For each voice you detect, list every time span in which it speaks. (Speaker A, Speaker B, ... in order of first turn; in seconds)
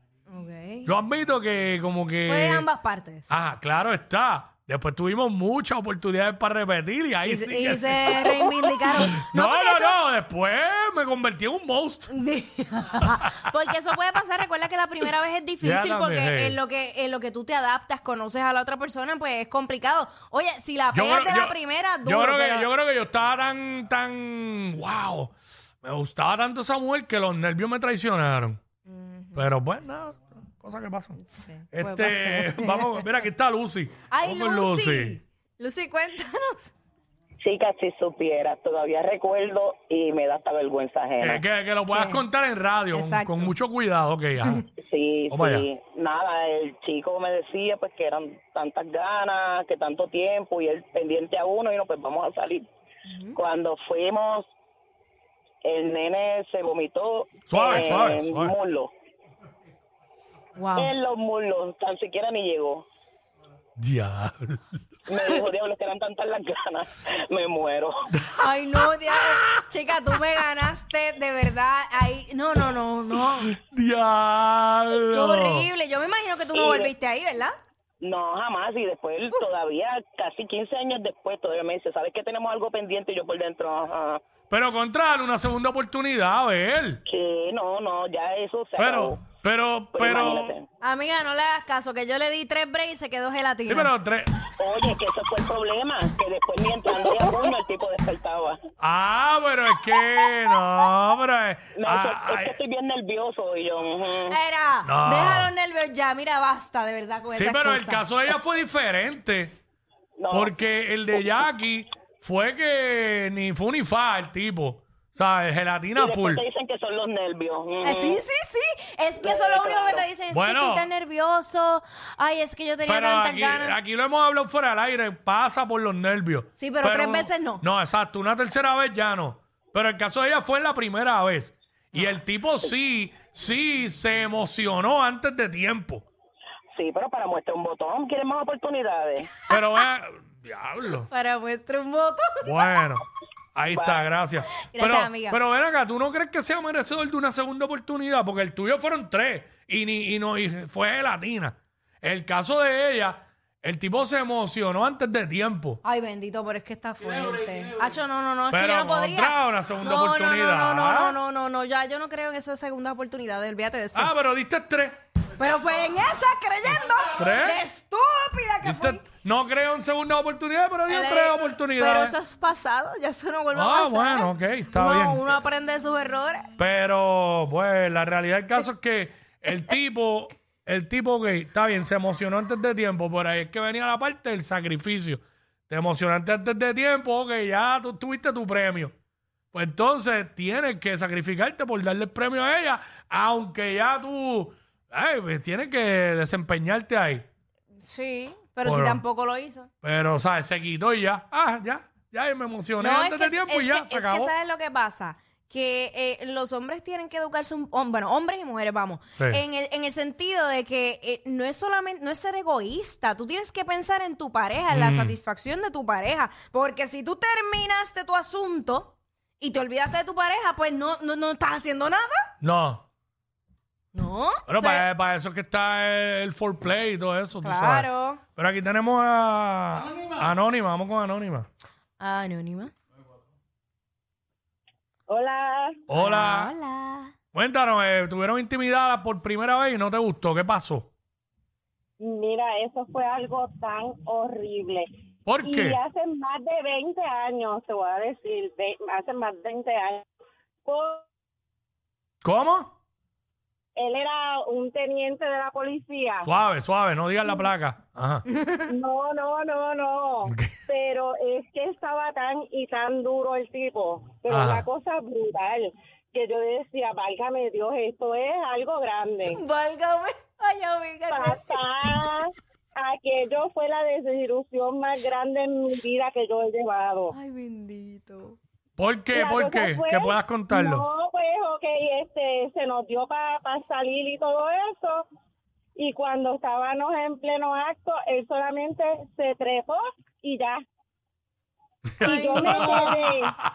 Speaker A: 0.3-0.9, 2.2-3.3, 7.2-10.0, 12.1-22.7, 28.9-29.5, 31.2-33.0, 34.1-36.7, 41.9-42.2, 42.9-43.5, 53.1-53.4, 60.6-60.9, 68.4-73.5, 75.0-77.5, 90.8-93.9, 104.3-108.0, 117.8-123.8, 126.5-127.6, 141.1-142.8, 144.7-145.4, 155.8-164.1, 165.3-169.0, 170.9-176.5, 197.8-199.7, 202.8-222.3, 223.9-224.8, 227.4-228.2, 232.0-232.7, 235.9-237.1, 258.3-258.7, 269.3-272.1, 277.1-278.4, 292.0-293.1
Speaker B: 0.8-2.7, 3.3-12.1, 13.0-13.3, 15.6-16.6, 20.9-28.6, 29.3-31.2, 31.7-35.2, 41.2-44.6, 45.3-45.7, 57.5-58.5, 63.8-64.8, 68.2-68.5, 69.1-69.6, 73.3-75.7, 84.5-87.0, 88.8-90.5, 93.7-94.3, 98.8-102.5, 104.8-105.5, 107.3-109.5, 110.3-116.4, 120.3-120.9, 122.8-136.1, 139.5-141.1, 142.4-143.0, 143.5-155.8, 158.5-161.2, 163.9-165.0, 167.2-167.6, 168.6-172.2, 173.5-175.2, 176.6-188.9, 189.5-197.3, 198.6-199.0, 199.8-204.3, 214.7-215.2, 222.4-222.8, 224.5-231.5, 235.9-236.5, 237.3-240.9, 245.2-245.8, 252.2-252.7, 256.2-258.2, 260.2-260.5, 264.3-264.6, 278.8-280.8, 292.0-293.3
Speaker C: 37.4-41.4, 44.8-52.7, 53.3-54.5, 55.6-58.9, 60.8-62.8, 65.1-67.9, 76.5-76.9, 78.0-84.2, 87.0-89.2, 89.9-90.6, 94.6-98.6, 101.8-104.4, 110.2-110.5, 116.0-118.2, 119.2-120.0, 136.7-139.3, 143.7-144.0
Speaker D: 235.1-235.7, 242.0-244.8, 245.4-250.0, 250.6-251.0, 253.8-256.3, 258.7-269.4, 271.1-277.1, 279.1-285.0, 285.8-290.6, 292.0-293.3